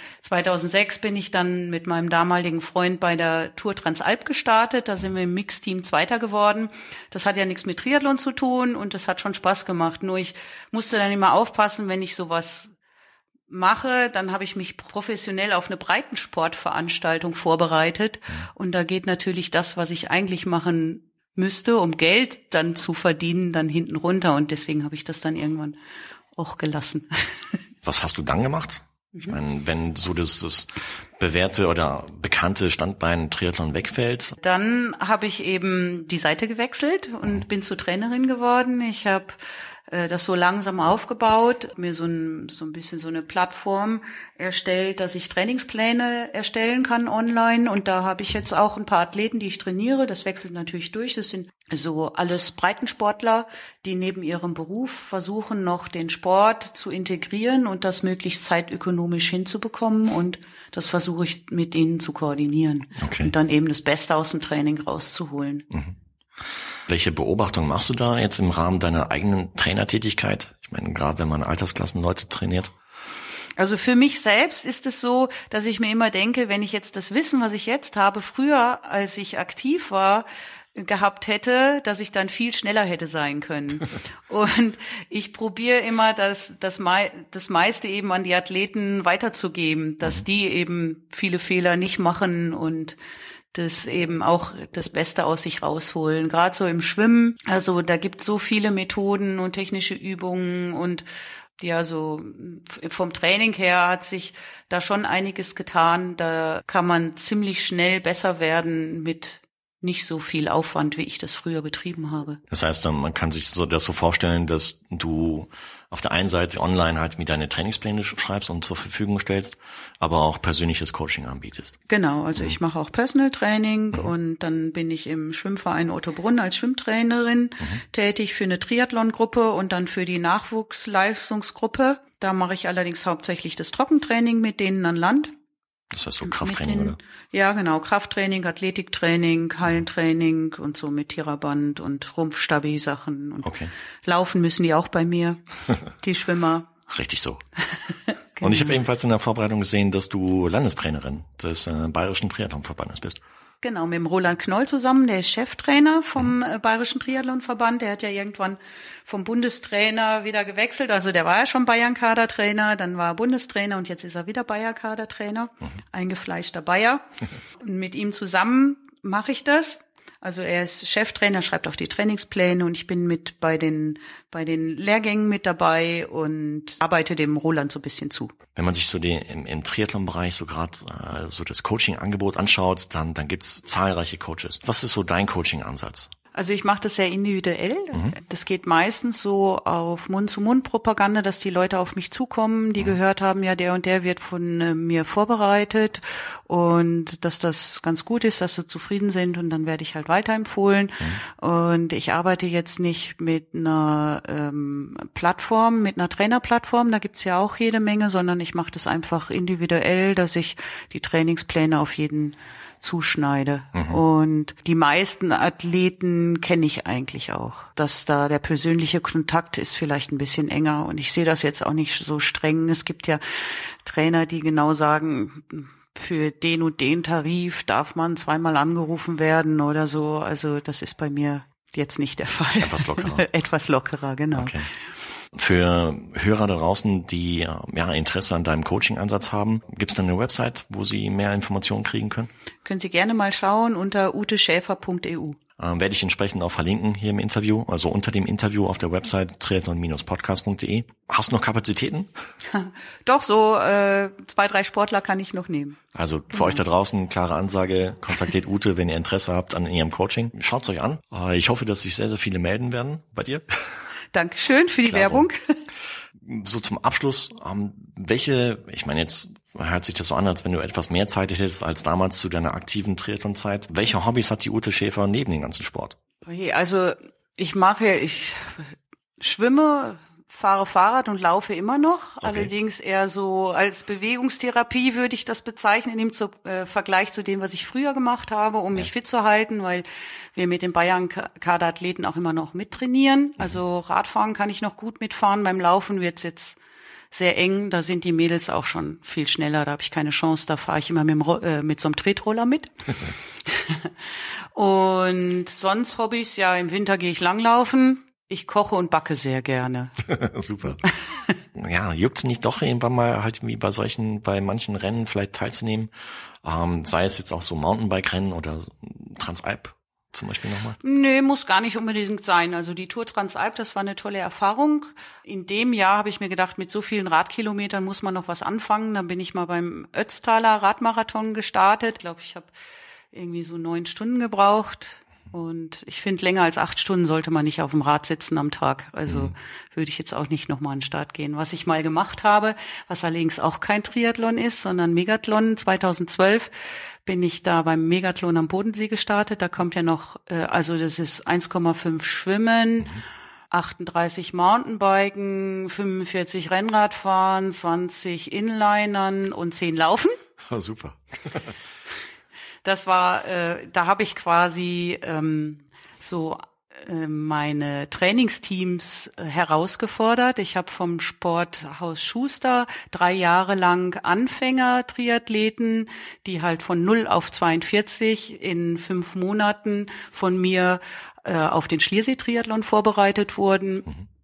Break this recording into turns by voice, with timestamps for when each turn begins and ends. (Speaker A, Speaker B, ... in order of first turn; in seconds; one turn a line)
Speaker A: 0.2-12.7
Speaker A: 13.5-25.8
Speaker A: 26.3-27.4
Speaker B: 27.8-34.4
Speaker A: 34.4-39.4
Speaker A: 39.9-65.7
Speaker B: 63.0-63.3
Speaker B: 66.9-72.7
Speaker A: 73.6-93.0
Speaker A: 93.5-101.0
Speaker A: 101.6-112.4
Speaker B: 112.5-121.8
Speaker A: 121.9-135.3
Speaker B: 135.9-137.0
Speaker A: 136.2-143.5
Speaker B: 143.4-143.7
Speaker A: 144.0-146.7
Speaker B: 146.9-147.4
Speaker A: 148.1-148.8
Speaker B: 148.4-153.2
Speaker A: 153.6-167.1
Speaker A: 167.6-178.3
Speaker B: 178.5-186.1
Speaker A: 186.3-234.5
Speaker B: 213.7-214.0
Speaker B: 232.6-233.2
Speaker B: 234.3-234.7
Speaker B: 235.3-242.3
Speaker A: 242.6-245.4
Speaker B: 245.6-252.1
Speaker A: 252.5-255.8
Speaker B: 255.9-263.7
Speaker A: 256.3-256.6
Speaker A: 264.1-265.4
Speaker B: 264.9-265.3
Speaker B: 266.2-275.9
Speaker A: 276.2-296.6
Speaker B: 282.2-282.5
Speaker A: 297.1-303.9
Speaker A: 304.5-309.9
Speaker B: 310.0-310.8
Speaker B: 311.6-315.9
Speaker B: 316.4-320.8
Speaker A: 320.8-332.5
Speaker A: 333.1-346.5
Speaker A: 347.0-352.9
Speaker A: 353.5-360.1
Speaker B: 360.4-361.5
Speaker A: 362.6-383.9